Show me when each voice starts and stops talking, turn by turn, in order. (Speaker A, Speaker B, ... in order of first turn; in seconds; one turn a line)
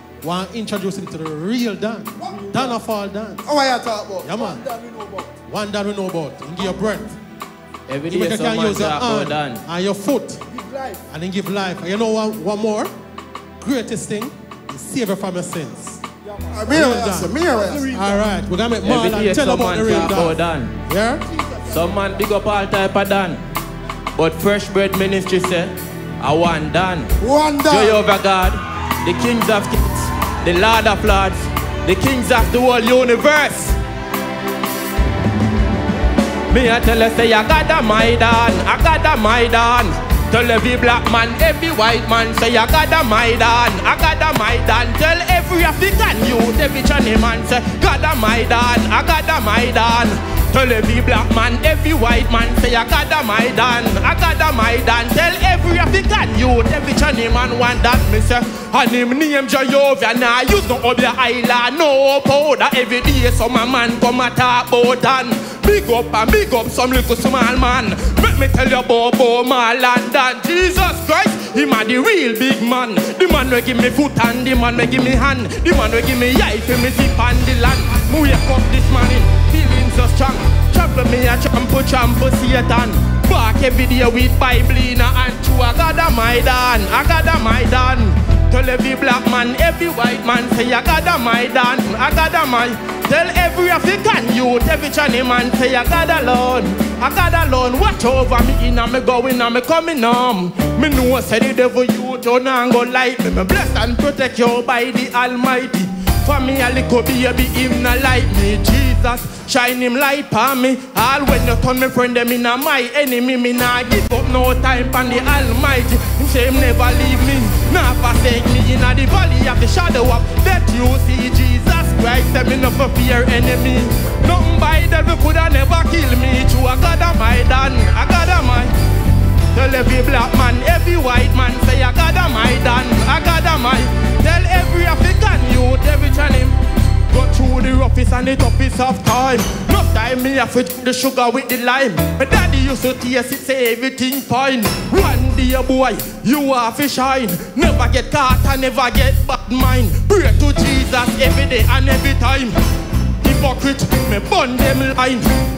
Speaker A: 0.2-3.5
Speaker B: 2.3-2.6
Speaker B: 3.4-5.3
Speaker A: 4.2-4.6
Speaker A: 5.4-7.2
Speaker C: 7.9-9.6
Speaker A: 8.1-10.4
Speaker A: 11.1-12.9
Speaker A: 13.6-16.0
Speaker B: 16.5-17.9
Speaker A: 16.6-17.3
Speaker A: 17.9-21.2
Speaker C: 18.8-20.8
Speaker C: 21.6-23.4
Speaker C: 24.1-27.1
Speaker B: 27.2-28.0
Speaker C: 27.6-33.8
Speaker C: 36.5-128.7
Speaker C: 129.5-152.6
Speaker C: 153.2-155.4